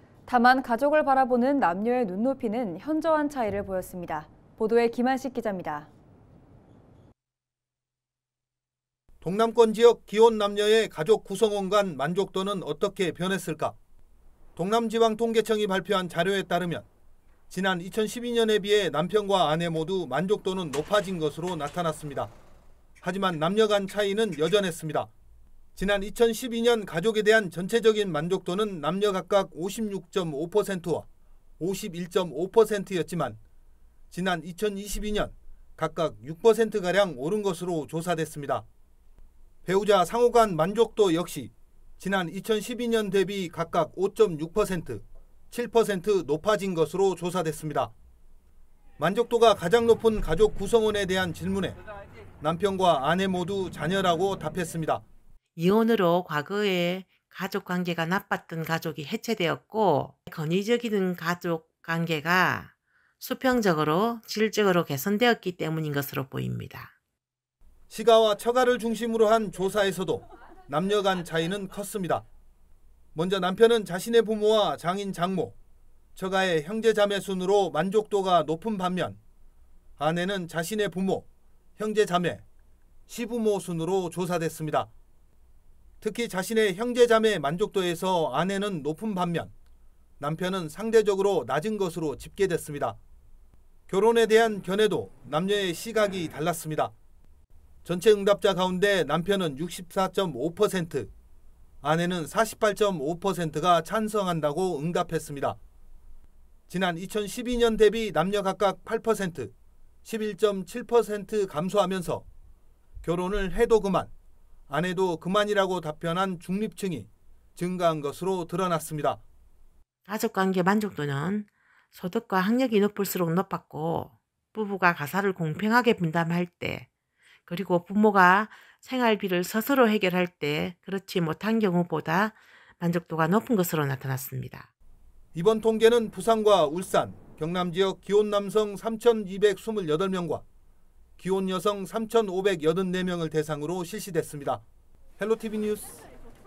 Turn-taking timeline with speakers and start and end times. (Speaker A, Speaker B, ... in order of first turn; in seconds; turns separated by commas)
Speaker A: 0.3-5.9, Speaker B: 9.2-13.8, Speaker B: 14.6-16.9, Speaker B: 17.5-22.3, Speaker B: 23.0-25.1, Speaker B: 25.8-31.1, Speaker B: 31.6-33.4, Speaker B: 34.1-38.6, Speaker B: 39.6-47.9, Speaker B: 49.0-51.8, Speaker B: 52.4-55.0, Speaker C: 55.6-62.7, Speaker C: 63.2-66.9, Speaker B: 67.9-72.2, Speaker B: 73.1-75.5, Speaker B: 76.2-79.2, Speaker B: 80.0-81.2, Speaker B: 81.8-82.4, Speaker B: 83.1-84.9, Speaker B: 86.0-89.5, Speaker B: 90.2-93.0, Speaker B: 93.9-96.9, Speaker B: 97.8-101.1, Speaker B: 101.8-105.6, Speaker B: 106.7-109.5, Speaker B: 110.0-112.2, Speaker B: 113.0-114.1, Speaker B: 114.7-119.2, Speaker C: 120.1-126.8, Speaker C: 127.5-134.7, Speaker B: 135.3-140.4, Speaker B: 141.2-144.6, Speaker B: 145.2-146.0